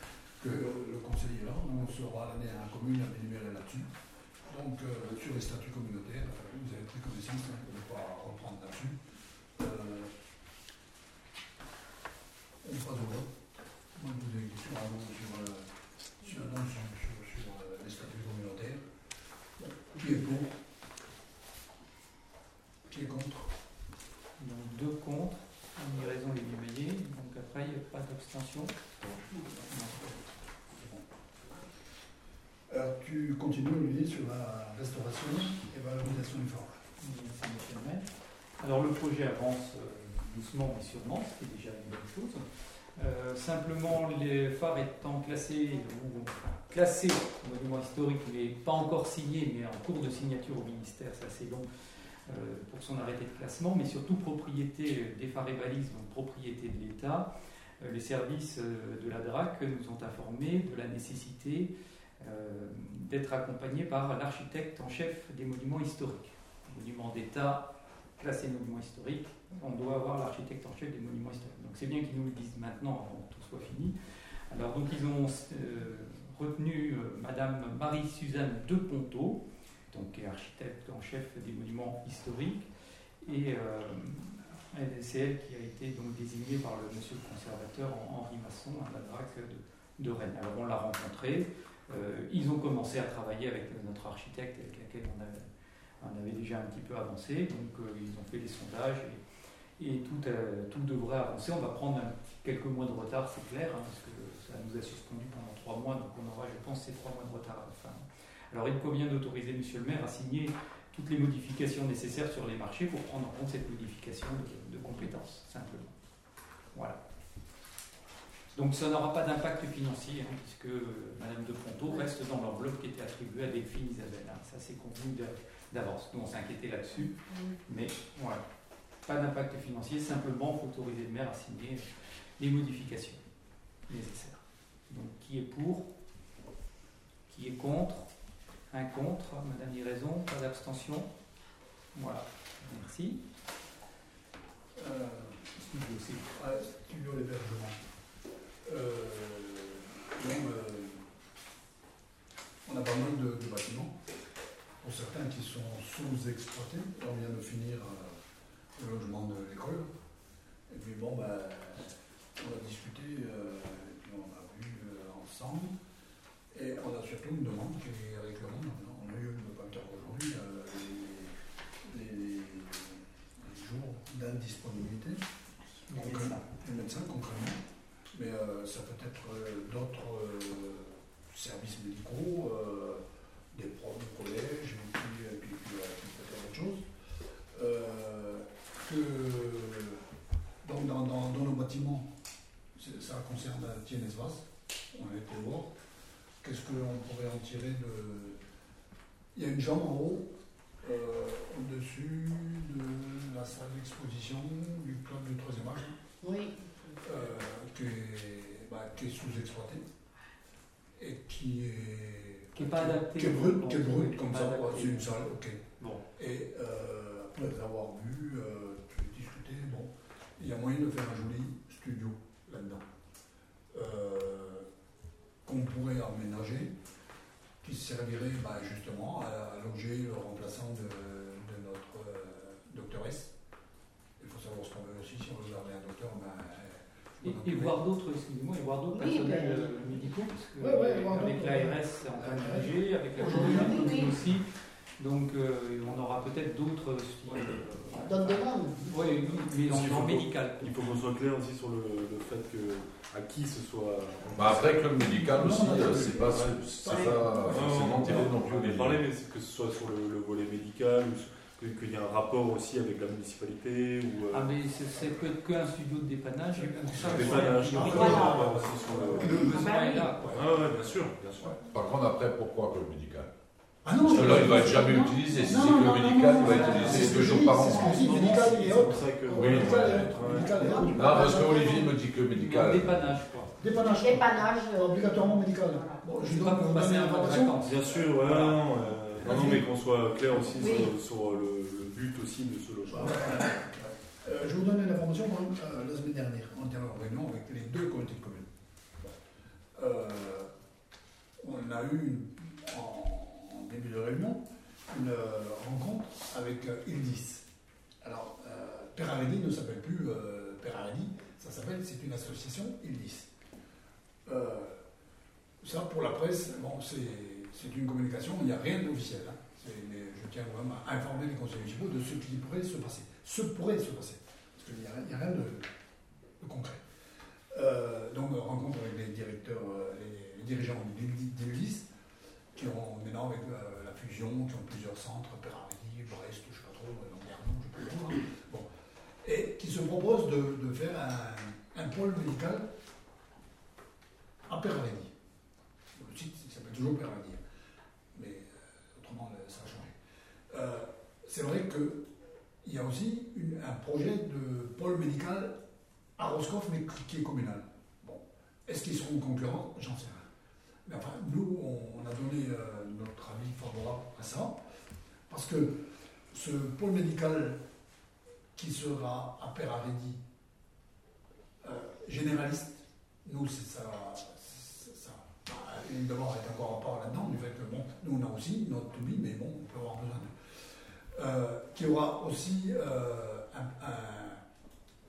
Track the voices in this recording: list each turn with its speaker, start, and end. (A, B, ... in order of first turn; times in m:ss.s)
0:00.4-0:03.9 A
0:04.5-0:09.0 A
0:09.6-0:10.1 A
0:12.6-0:13.3 A
0:13.9-0:15.7 A
0:16.2-0:18.8 A
0:19.6-0:20.5 A
0:22.9-0:23.5 A
0:24.4-0:28.9 B
0:29.0-0:30.2 A
0:29.7-0:30.0 B
0:30.7-0:31.0 A
0:32.7-0:36.8 A
0:37.0-0:38.0 B
0:38.6-0:42.4 B
0:43.0-0:51.7 B
0:52.3-0:57.3 B
0:57.8-1:07.7 B
1:08.2-1:13.9 B
1:14.5-1:22.7 B
1:23.2-1:35.5 B
1:36.0-1:39.2 B
1:39.8-1:55.9 B
1:56.7-1:57.0 B
1:58.5-2:08.4 B
2:07.3-2:07.6 C
2:09.0-2:11.9 B
2:12.4-2:13.2 B
2:13.9-2:15.8 B
2:17.3-2:18.1 B
2:18.7-2:21.0 B
2:21.9-2:23.2 B
2:24.8-2:25.5 A
2:25.6-2:26.3 B
2:26.3-2:27.8 A
2:28.6-2:31.1 A
2:32.6-2:34.0 A
2:34.8-2:38.2 A
2:38.8-2:39.9 A
2:40.7-2:45.7 A
2:46.5-2:51.3 A
2:51.9-2:55.2 A
2:55.9-2:56.5 B
2:55.9-2:57.6 A
2:58.1-3:06.8 A
3:07.5-3:10.0 A
3:10.6-3:12.1 A
3:12.8-3:15.7 A
3:16.4-3:18.4 A
3:19.3-3:20.3 A
3:20.8-3:25.9 A
3:26.2-3:27.0 C
3:27.0-3:29.8 A
3:31.0-3:35.6 A
3:32.6-3:35.2 B
3:35.8-3:36.0 B
3:36.2-3:42.9 A
3:43.7-3:44.7 A
3:45.4-3:46.7 A
3:47.6-3:53.3 A
3:54.2-3:57.8 A
3:57.2-4:04.4 B
3:58.9-3:59.9 C
4:00.6-4:04.0 A
4:03.2-4:04.1 C
4:05.0-4:11.0 B
4:08.0-4:09.0 C
4:09.5-4:14.9 D
4:14.3-4:19.0 E
4:15.1-4:17.5 A
4:15.7-4:16.7 D
4:16.8-4:17.4 C
4:17.4-4:24.6 D
4:24.3-4:30.6 B
4:26.5-4:30.7 A
4:26.9-4:29.5 D
4:27.9-4:28.7 C
4:29.4-4:30.2 C
4:30.2-4:31.6 D
4:31.6-4:33.3 E
4:33.8-4:41.9 A
4:34.0-4:38.1 E
4:34.1-4:34.6 D
4:35.6-4:36.2 C
4:36.4-4:40.9 D
4:39.3-4:40.2 E
4:40.2-4:41.9 C
4:40.9-4:43.1 E
4:42.3-4:43.5 B
4:43.6-4:47.7 A
4:43.8-4:46.0 C
4:46.2-4:47.8 B
4:47.5-4:53.6 D
4:49.2-4:49.7 A
4:50.6-4:50.9 C
4:52.9-4:58.5 A
4:59.8-5:00.5 A
5:01.4-5:07.4 A
5:08.0-5:13.3 A
5:14.2-5:14.8 A
5:15.6-5:25.7 A
5:26.4-5:26.8 A
5:27.5-5:31.9 A
5:32.5-5:38.7 A
5:39.2-5:42.6 A
5:44.5-5:45.1 A
5:45.9-5:47.4 A
5:48.1-5:49.9 A
5:50.5-5:52.1 A
5:52.6-5:55.5 A
5:56.2-6:00.3 A
6:00.8-6:04.6 A
6:05.3-6:07.6 A
6:08.6-6:10.2 A
6:11.6-6:20.3 A
6:21.1-6:24.4 A